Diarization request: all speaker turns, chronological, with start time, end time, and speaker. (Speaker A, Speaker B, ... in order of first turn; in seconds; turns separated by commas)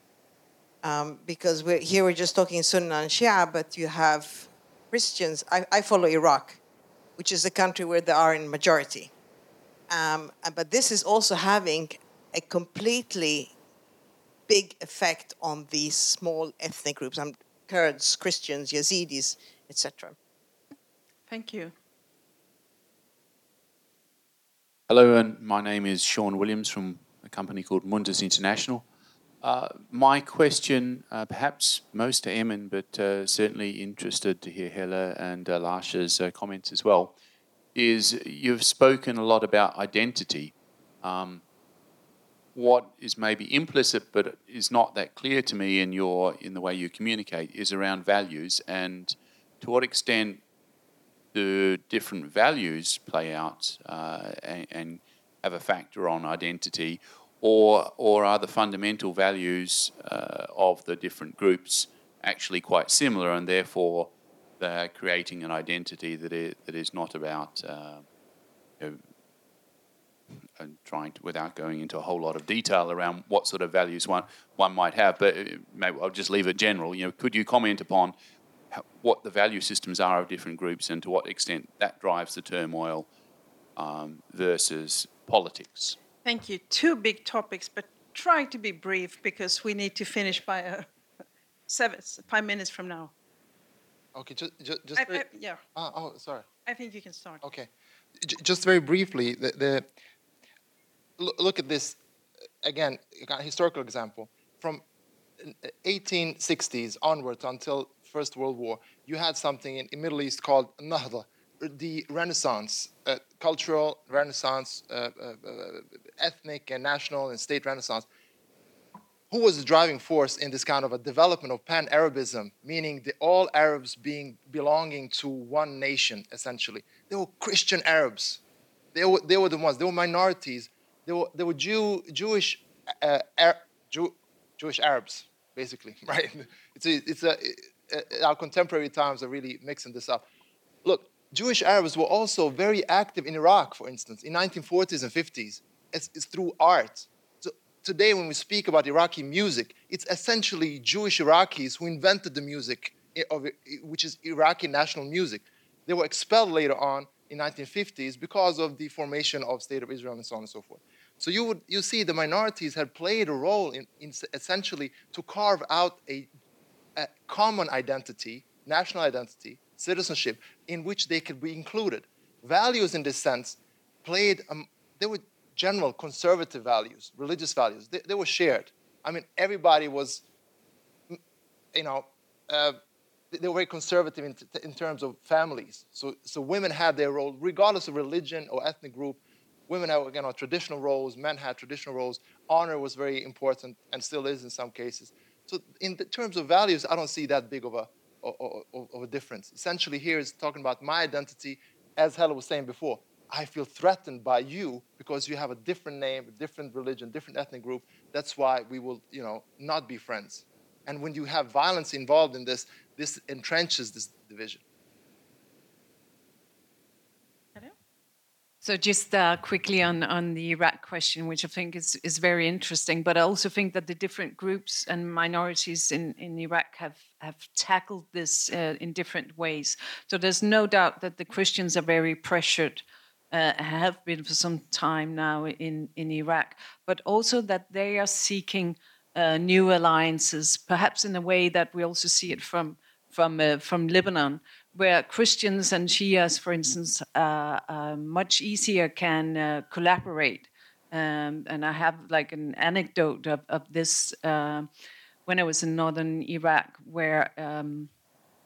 Speaker A: 0.8-6.6, Speaker A: 7.2-9.1, Speaker A: 9.9-13.5, Speaker A: 14.5-20.2, Speaker B: 21.3-21.7, Speaker C: 24.9-28.9, Speaker C: 29.4-37.2, Speaker C: 37.8-41.4, Speaker C: 42.5-50.4, Speaker C: 51.3-68.1, Speaker C: 70.6-78.2, Speaker C: 78.7-83.1, Speaker C: 83.8-86.0, Speaker B: 86.2-90.9, Speaker B: 91.7-93.1, Speaker D: 94.2-95.2, Speaker B: 95.0-95.6, Speaker D: 95.8-96.5, Speaker B: 96.7-97.4, Speaker D: 97.4-97.7, Speaker D: 98.2-99.9, Speaker D: 101.2-102.0, Speaker D: 102.6-104.8, Speaker D: 105.4-118.1, Speaker D: 119.3-128.4, Speaker D: 128.9-140.2, Speaker D: 140.8-166.3, Speaker D: 167.0-180.2, Speaker D: 181.7-182.8, Speaker D: 183.3-214.6, Speaker E: 218.6-254.7, Speaker E: 255.3-257.9